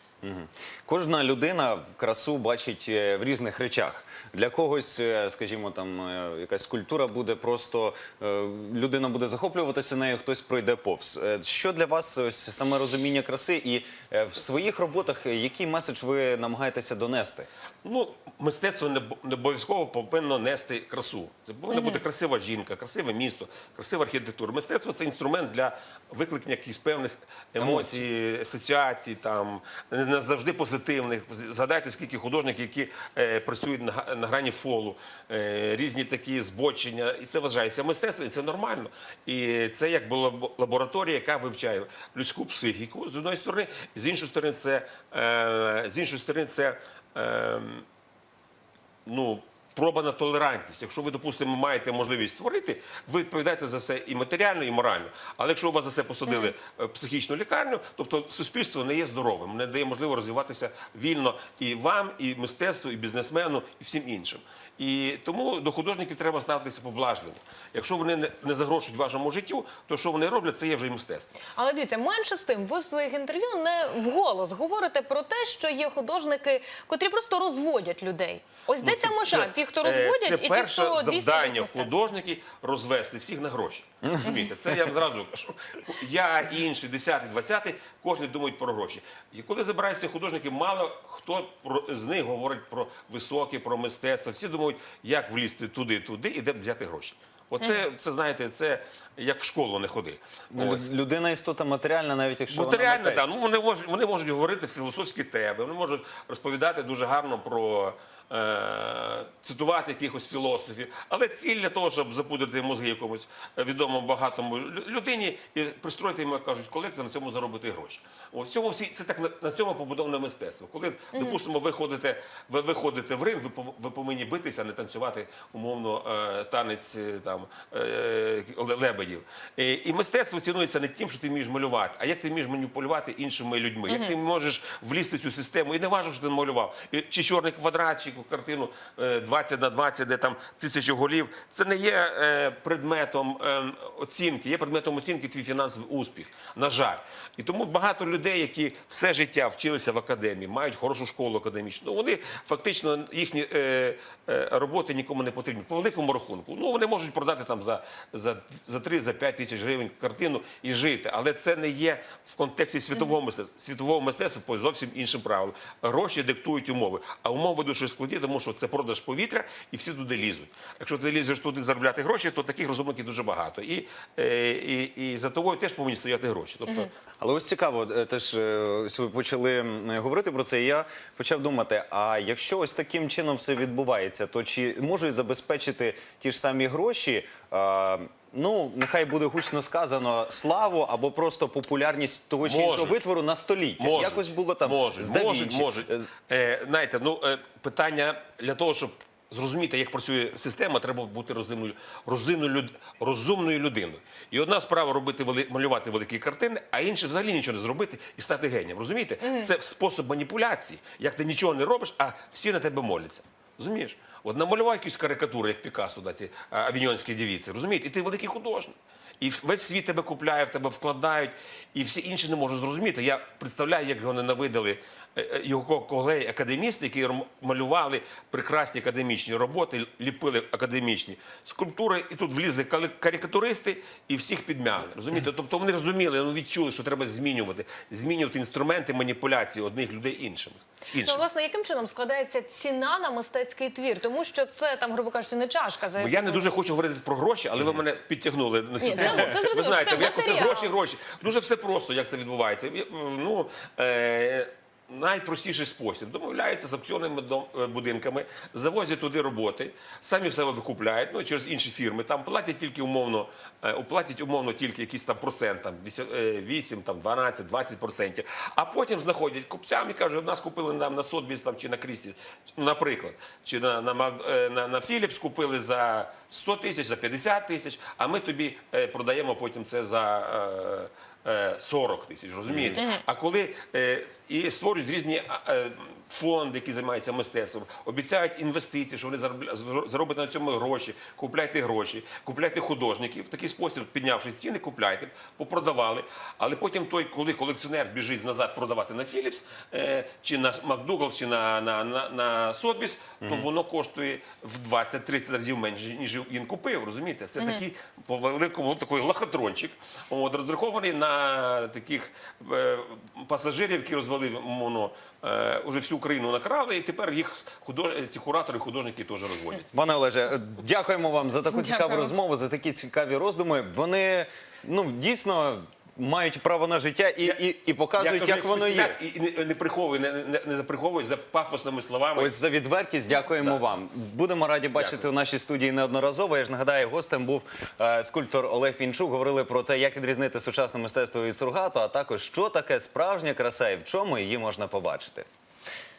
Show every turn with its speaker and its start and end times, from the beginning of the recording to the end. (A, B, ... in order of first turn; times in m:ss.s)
0:00.2-0:17.5 A
0:17.8-0:47.8 B
0:21.7-0:22.0 C
0:27.6-0:28.0 A
0:49.0-1:11.4 B
0:56.3-0:56.5 C
1:11.4-1:22.0 C
1:18.8-1:40.9 B
1:24.0-1:24.3 A
1:24.2-1:24.5 C
1:40.5-1:43.4 A
1:42.5-2:56.9 B
2:01.1-2:01.4 C
2:13.9-2:14.1 C
2:57.2-3:16.1 A
3:12.4-3:13.0 B
3:13.8-4:01.2 B
3:29.2-3:29.5 C
4:01.0-4:06.5 C
4:06.0-5:19.7 B
4:08.8-4:10.7 C
4:42.5-4:42.8 A
4:42.8-4:43.0 C
5:03.2-5:03.5 A
5:07.4-5:07.6 C
5:19.7-5:29.0 A
5:21.6-5:22.1 C
5:28.0-5:32.3 B
5:32.1-5:45.2 A
5:34.7-5:35.0 B